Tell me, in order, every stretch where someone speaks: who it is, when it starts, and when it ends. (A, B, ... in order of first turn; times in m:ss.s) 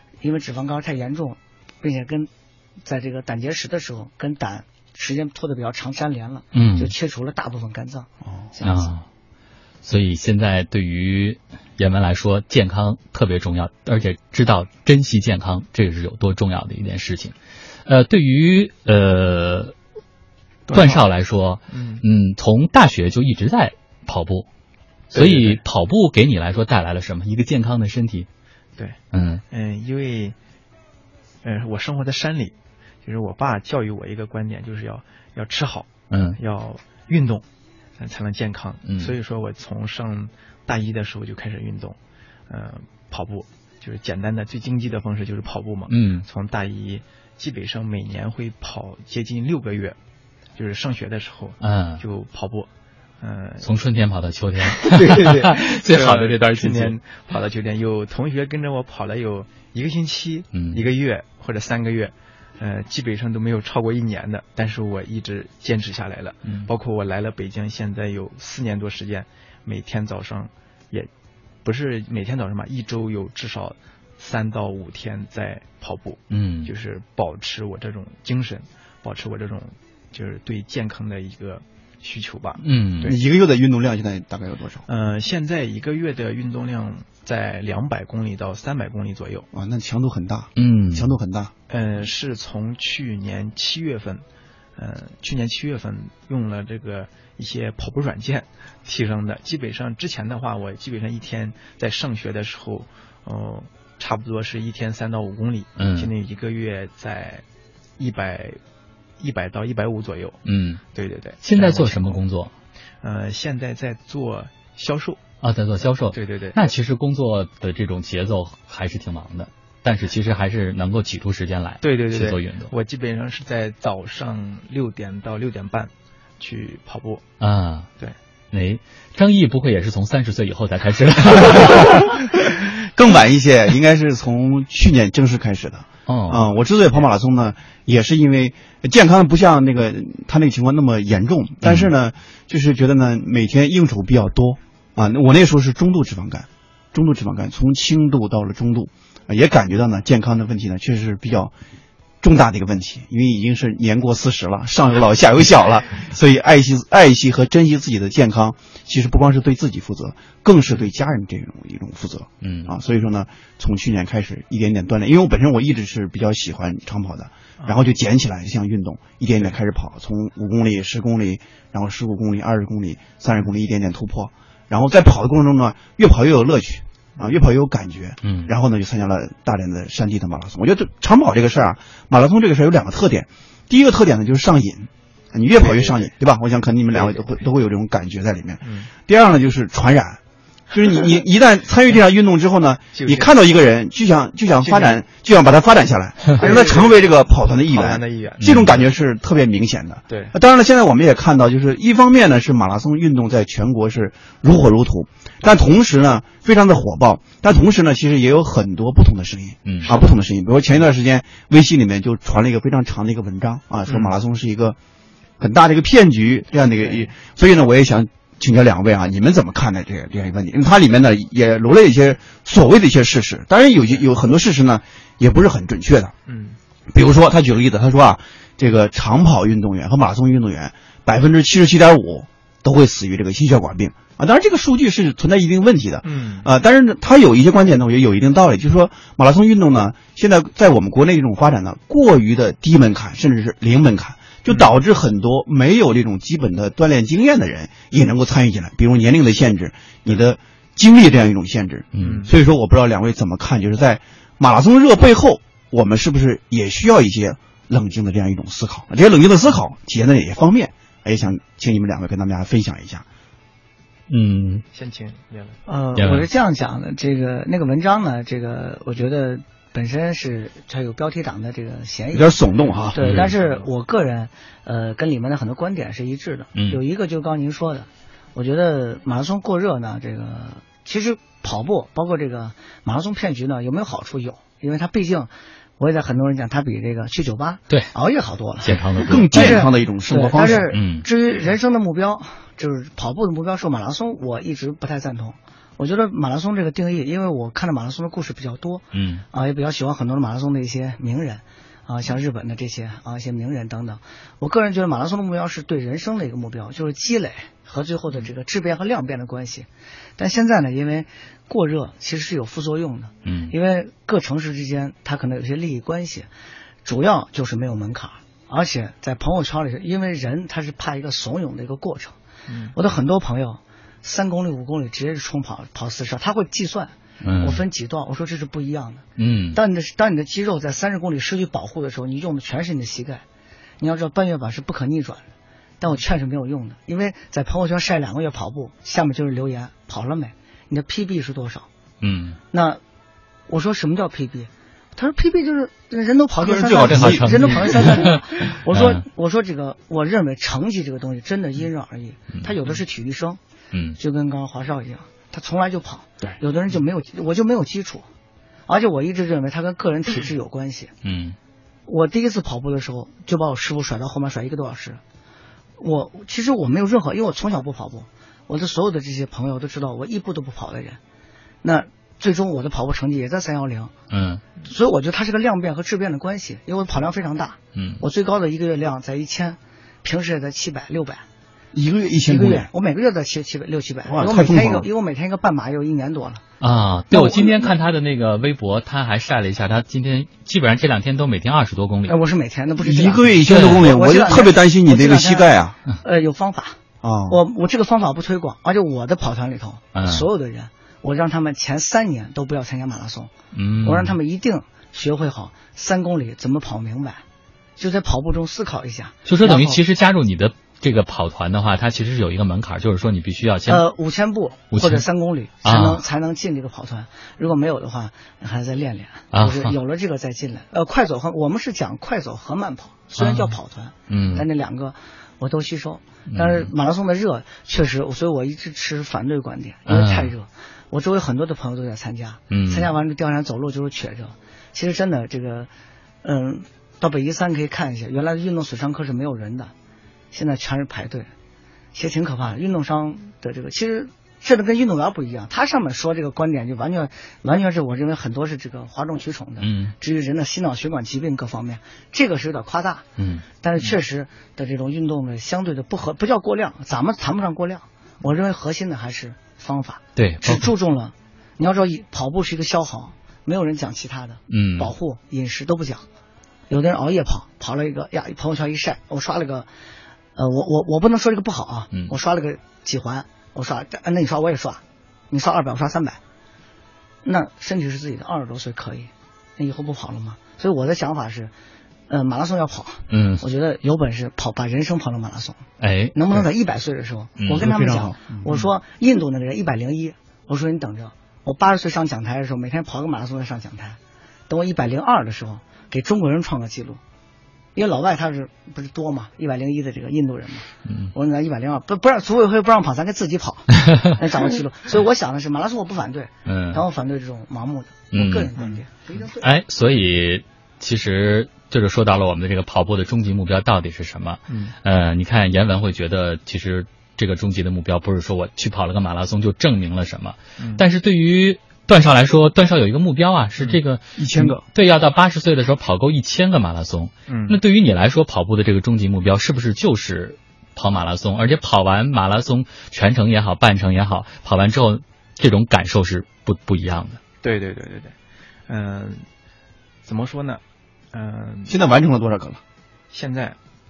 0:00.2-0:02.3 A
0:02.8-0:08.9 A
0:06.5-0:06.9 B
0:08.6-0:09.0 B
0:09.8-0:17.3 B
0:17.9-0:19.7 B
0:20.7-0:21.0 C
0:20.7-0:24.5 B
0:21.7-0:22.0 C
0:25.1-0:25.6 C
0:25.1-0:28.3 B
0:29.1-0:29.4 B
0:29.5-0:30.4 C
0:31.4-0:32.5 C
0:33.0-0:37.4 C
0:36.1-0:36.4 B
0:38.0-0:42.0 C
0:38.9-0:39.1 B
0:42.5-0:50.0 C
0:45.9-0:46.2 B
0:50.6-0:52.7 C
0:51.6-0:52.0 B
0:53.2-0:53.7 C
0:53.6-0:57.0 B
0:54.7-1:11.1 C
1:00.5-1:00.8 B
1:11.6-1:23.1 C
1:16.3-1:16.7 B
1:22.6-1:23.1 B
1:23.0-1:24.8 D
1:24.9-1:29.5 C
1:29.5-1:31.5 D
1:30.6-1:31.1 B
1:31.7-1:34.2 C
1:34.8-1:47.4 C
1:45.8-1:46.1 B
1:48.0-1:48.6 C
1:49.2-1:50.4 C
1:50.4-1:50.8 B
1:50.9-1:52.2 C
1:51.4-1:52.5 B
1:53.0-1:55.2 C
1:55.4-2:02.7 B
1:56.1-1:56.6 C
2:01.8-2:07.2 C
2:07.4-2:07.9 B
2:08.5-2:12.1 B
2:13.0-2:31.5 D
2:16.1-2:16.5 B
2:21.6-2:21.9 B
2:32.2-3:10.2 D
2:42.4-2:42.7 B
2:47.6-2:47.9 C
2:58.2-2:58.5 B
3:05.5-3:06.1 C
3:06.9-3:07.5 C
3:08.6-3:08.9 C
3:10.7-3:34.8 D
3:12.9-3:13.3 C
3:14.6-3:15.0 C
3:16.4-3:18.9 C
3:18.4-3:18.7 B
3:20.1-3:20.3 C
3:29.6-3:29.9 B
3:29.8-3:30.1 C
3:33.9-3:34.1 C
3:35.4-3:46.1 D
3:36.8-3:37.1 C
3:46.3-3:46.6 C
3:46.9-4:23.0 D
3:56.0-3:56.5 C
4:04.5-4:04.7 C
4:11.9-4:12.2 B
4:12.0-4:12.3 C
4:24.1-4:24.6 B
4:24.7-4:25.6 C
4:25.6-4:32.4 A
4:26.0-4:26.2 B
4:32.1-4:33.3 D
4:32.9-5:16.3 A
4:33.0-4:33.3 B
4:33.2-4:33.7 C
4:36.5-4:36.8 B
4:48.6-4:49.6 B
4:49.0-4:50.7 D
4:50.4-4:51.0 B
4:58.9-4:59.2 B
5:13.2-5:13.5 B
5:16.8-5:22.1 A
5:22.5-5:22.7 C
5:22.7-5:33.2 A
5:27.2-5:27.6 B
5:29.2-5:29.6 B
5:33.8-5:35.3 A
5:35.8-5:41.7 A
5:42.0-5:42.4 B
5:42.5-5:42.8 A
5:43.5-5:53.4 A
5:46.4-5:48.1 D
5:46.6-5:49.0 B
5:53.7-5:54.0 B
5:54.0-5:58.0 A
5:58.7-6:00.9 A
6:01.0-6:01.4 B
6:01.9-6:05.0 A
6:05.8-6:11.0 A
6:11.6-6:13.9 A
6:14.1-6:14.4 B
6:14.6-6:21.2 A
6:17.8-6:18.0 B
6:21.7-6:22.7 D
6:22.3-6:26.4 A
6:24.0-6:24.9 D
6:26.6-6:32.2 B
6:32.1-6:35.5 A
6:32.8-6:35.8 D
6:33.4-6:33.8 B
6:36.0-6:36.8 A
6:37.0-6:37.4 D
6:37.3-6:43.3 A
6:39.9-6:40.2 B
6:43.5-6:44.2 B
6:43.8-6:47.2 A
6:47.8-6:49.8 A
6:49.3-6:53.8 B
6:53.7-7:15.7 A
6:54.7-6:55.0 B
6:55.6-6:56.0 B
6:59.3-6:59.8 B
7:03.2-7:03.6 B
7:04.1-7:04.5 B
7:06.3-7:06.7 B
7:09.9-7:10.3 B
7:12.5-7:12.9 B
7:16.2-7:19.7 A
7:20.3-7:21.3 A
7:21.9-7:33.1 A
7:29.6-7:29.9 B
7:33.2-7:33.5 B
7:33.6-7:46.0 A
7:40.2-7:40.7 B
7:44.5-7:44.9 B
7:46.7-7:49.7 A
7:50.4-7:56.2 A
7:57.2-8:01.5 A
8:02.1-8:05.6 A
8:03.1-8:03.4 B
8:05.8-8:06.5 B
8:06.1-8:14.0 A
8:07.4-8:07.6 B
8:07.5-8:08.2 D
8:14.5-8:17.0 A
8:17.7-8:29.5 A
8:20.9-8:21.1 B
8:23.8-8:24.1 B
8:26.4-8:26.8 B
8:28.1-8:28.5 B
8:29.4-8:57.2 B
8:34.5-8:34.7 C
8:40.6-8:40.8 C
8:44.2-8:44.6 D
8:47.3-8:47.6 C
8:57.4-8:58.1 C
8:58.7-8:59.2 C
9:00.0-9:00.6 C
9:01.1-9:01.8 C
9:01.7-9:02.6 D
9:03.1-9:03.6 C